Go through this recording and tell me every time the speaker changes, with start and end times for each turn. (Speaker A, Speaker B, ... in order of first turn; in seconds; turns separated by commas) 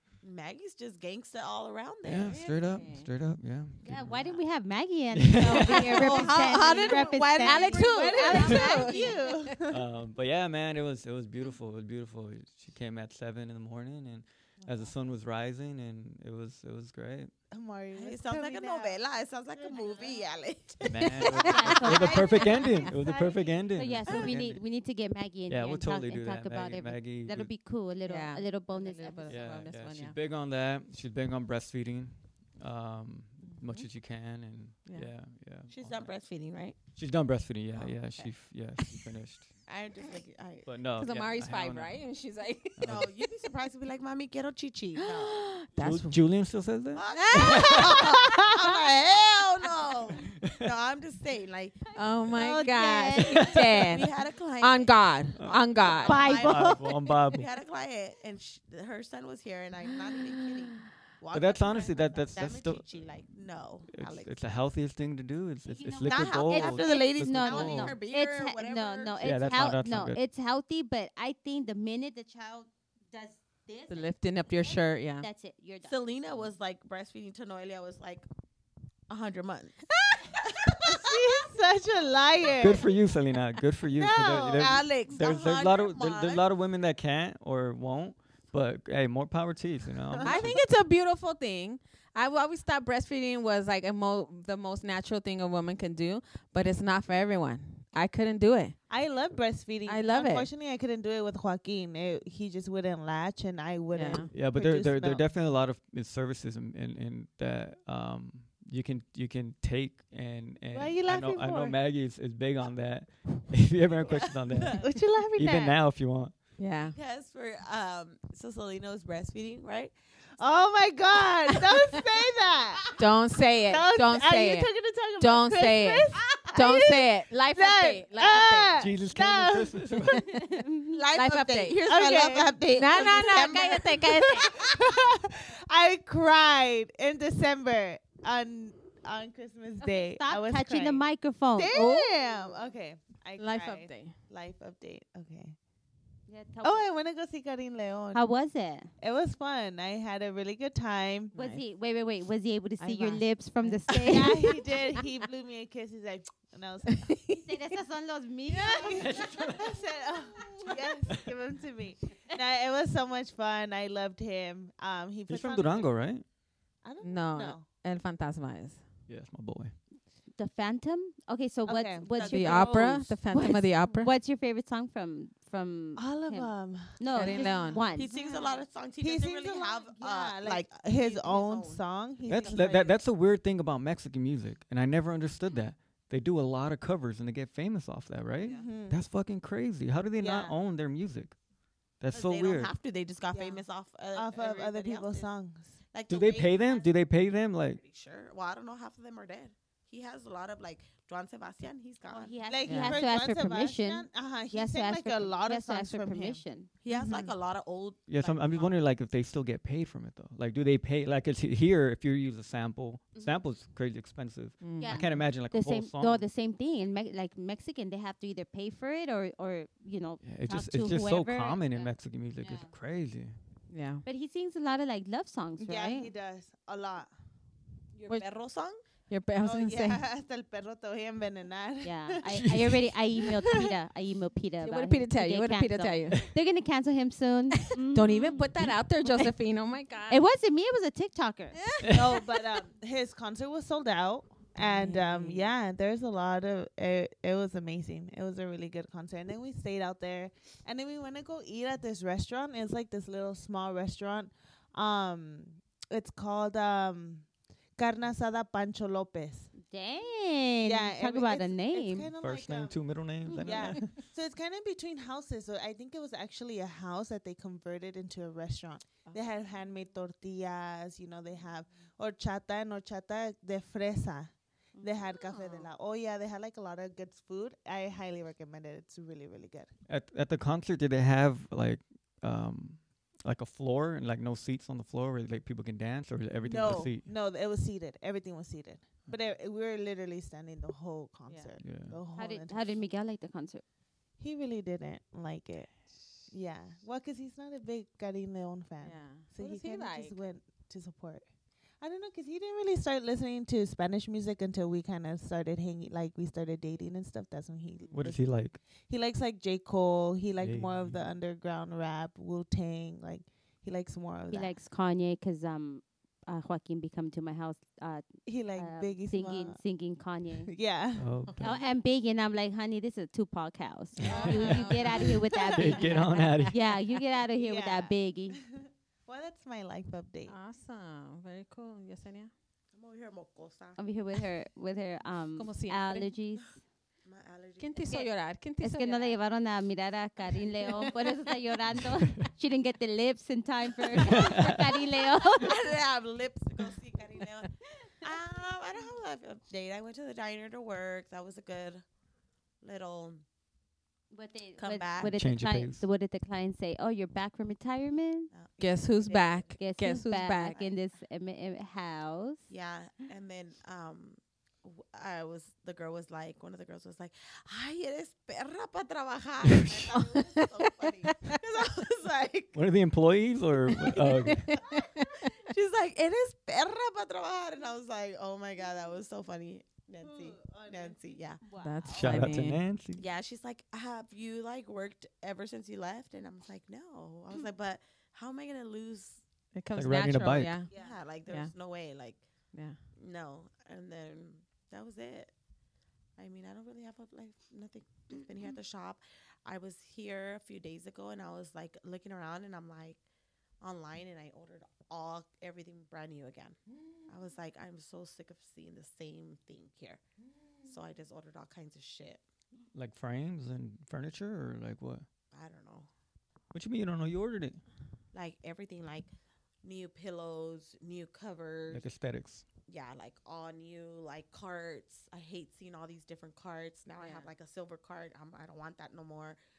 Speaker A: 0.2-2.5, Speaker B: 2.0-4.4, Speaker C: 2.3-3.1, Speaker D: 3.8-8.9, Speaker B: 5.1-6.3, Speaker A: 5.7-9.2, Speaker E: 6.3-9.8, Speaker C: 7.4-9.4, Speaker B: 9.7-17.3, Speaker E: 17.5-19.0, Speaker A: 17.9-22.8, Speaker B: 20.8-24.6, Speaker D: 21.3-22.5, Speaker C: 21.5-22.1, Speaker E: 22.0-23.6, Speaker D: 23.7-29.4, Speaker B: 25.5-27.5, Speaker C: 28.1-30.2, Speaker B: 29.3-36.1, Speaker C: 33.5-33.9, Speaker A: 35.7-36.8, Speaker B: 37.0-39.5, Speaker C: 37.8-39.0, Speaker A: 39.7-40.7, Speaker B: 40.6-42.0, Speaker C: 41.0-43.3, Speaker B: 42.8-43.1, Speaker A: 42.8-45.5, Speaker C: 45.0-46.2, Speaker B: 45.8-47.9, Speaker A: 46.9-51.8, Speaker C: 47.1-48.0, Speaker E: 47.9-48.7, Speaker B: 50.3-50.7, Speaker C: 51.9-56.3, Speaker D: 52.3-53.6, Speaker B: 53.3-53.7, Speaker A: 53.7-64.3, Speaker B: 55.4-57.5, Speaker D: 56.0-56.8, Speaker C: 60.2-60.6, Speaker B: 61.3-62.9, Speaker B: 63.9-68.0, Speaker D: 65.7-76.0, Speaker A: 66.0-69.6, Speaker B: 69.2-70.2, Speaker C: 73.9-75.3, Speaker A: 75.8-78.2, Speaker A: 79.1-81.5, Speaker E: 80.9-82.9, Speaker B: 82.6-90.6, Speaker E: 83.9-84.8, Speaker A: 84.5-86.4, Speaker C: 90.2-98.8, Speaker E: 98.9-105.2, Speaker C: 99.8-100.5, Speaker C: 103.9-104.3, Speaker B: 104.3-114.8, Speaker E: 110.7-111.8, Speaker A: 114.1-114.8, Speaker E: 114.7-115.8, Speaker B: 115.3-116.3, Speaker C: 116.6-117.0, Speaker A: 116.9-119.9, Speaker E: 120.4-122.9, Speaker C: 123.0-128.8, Speaker E: 123.7-130.3, Speaker B: 128.8-130.3, Speaker D: 130.3-130.8, Speaker A: 130.8-134.8, Speaker C: 131.1-131.8, Speaker E: 131.9-132.6, Speaker C: 132.7-134.5, Speaker E: 134.5-145.6, Speaker D: 139.8-141.7, Speaker C: 141.7-142.2, Speaker C: 143.4-144.2, Speaker D: 146.3-146.8, Speaker E: 146.6-148.2, Speaker D: 148.1-148.9, Speaker E: 149.0-151.3, Speaker C: 151.3-151.6, Speaker D: 151.3-154.4, Speaker C: 152.8-154.8, Speaker E: 154.0-157.1, Speaker C: 156.9-157.4, Speaker D: 157.3-159.2, Speaker E: 158.5-166.0, Speaker B: 158.9-159.7, Speaker B: 165.3-166.2, Speaker E: 166.8-167.6, Speaker C: 167.0-168.8, Speaker B: 169.1-169.7, Speaker D: 170.3-178.1, Speaker E: 171.7-173.1, Speaker C: 172.2-174.1, Speaker E: 176.0-183.0, Speaker C: 177.1-177.8, Speaker A: 177.9-181.8, Speaker B: 182.2-191.3, Speaker A: 188.4-188.7, Speaker E: 188.4-189.0, Speaker E: 190.2-190.5, Speaker B: 192.0-192.7, Speaker A: 192.1-195.3, Speaker E: 193.3-193.6, Speaker E: 194.1-195.8, Speaker A: 195.9-197.0, Speaker B: 196.1-197.8, Speaker A: 197.7-202.3, Speaker D: 202.1-206.7, Speaker E: 202.5-206.4, Speaker C: 202.7-203.0, Speaker A: 206.8-208.8, Speaker C: 206.9-207.3, Speaker B: 208.1-216.2, Speaker C: 214.6-215.2, Speaker D: 214.8-222.7, Speaker B: 220.2-223.4, Speaker C: 223.7-224.0, Speaker D: 224.0-226.1, Speaker E: 225.6-227.1, Speaker A: 228.0-228.8, Speaker C: 229.1-230.0, Speaker E: 229.4-232.2, Speaker D: 231.8-238.4, Speaker B: 232.3-232.8, Speaker E: 233.2-233.7, Speaker C: 234.6-236.3, Speaker C: 237.8-240.2, Speaker D: 240.1-241.6, Speaker C: 241.6-241.9, Speaker B: 241.8-242.1, Speaker E: 241.9-257.2, Speaker C: 244.6-245.5, Speaker E: 257.8-259.5, Speaker D: 259.6-262.1, Speaker E: 260.6-262.8, Speaker B: 262.2-264.0, Speaker E: 263.4-279.7, Speaker D: 274.8-275.6, Speaker B: 279.9-287.1, Speaker A: 286.4-286.9, Speaker E: 286.5-292.7, Speaker C: 291.3-291.5, Speaker B: 291.6-292.0, Speaker D: 292.1-293.6, Speaker E: 294.2-295.7, Speaker E: 296.3-301.2, Speaker C: 298.8-300.2, Speaker E: 301.8-314.5, Speaker B: 307.9-308.6, Speaker B: 310.4-311.0, Speaker D: 314.3-320.5, Speaker E: 318.2-319.6, Speaker E: 320.5-321.3, Speaker B: 320.9-321.6, Speaker D: 321.4-328.4, Speaker B: 324.0-324.7, Speaker E: 324.0-326.5, Speaker C: 324.1-324.8, Speaker B: 325.5-326.6, Speaker E: 327.3-330.3, Speaker C: 330.3-332.3, Speaker A: 332.7-333.8, Speaker D: 333.8-336.5, Speaker C: 335.4-336.1, Speaker A: 337.0-337.9, Speaker C: 337.6-339.2, Speaker D: 338.6-345.6, Speaker B: 341.8-342.2, Speaker B: 344.0-344.6, Speaker A: 345.2-351.8, Speaker A: 352.6-353.2, Speaker D: 354.1-358.3, Speaker A: 354.6-355.1, Speaker B: 355.0-355.8, Speaker A: 358.3-359.5, Speaker C: 358.6-360.6, Speaker D: 359.6-362.5, Speaker A: 362.5-372.5, Speaker B: 369.5-369.9, Speaker C: 369.9-371.4, Speaker B: 372.5-374.6, Speaker C: 373.7-375.2, Speaker A: 375.3-381.4, Speaker E: 380.0-381.1, Speaker D: 381.4-382.0, Speaker C: 381.6-382.6, Speaker B: 381.9-383.0, Speaker A: 382.9-389.2, Speaker C: 389.5-390.7, Speaker B: 389.7-390.6, Speaker E: 390.7-391.0, Speaker A: 390.7-392.2, Speaker C: 391.2-391.5, Speaker C: 392.5-392.8, Speaker A: 392.9-395.3, Speaker A: 396.2-403.0, Speaker A: 403.6-410.0, Speaker A: 410.6-412.2, Speaker B: 412.7-415.0, Speaker A: 415.3-415.9, Speaker B: 416.5-417.6, Speaker A: 418.1-419.1, Speaker A: 419.6-421.9, Speaker B: 421.7-422.4, Speaker A: 422.7-429.4, Speaker C: 427.0-427.3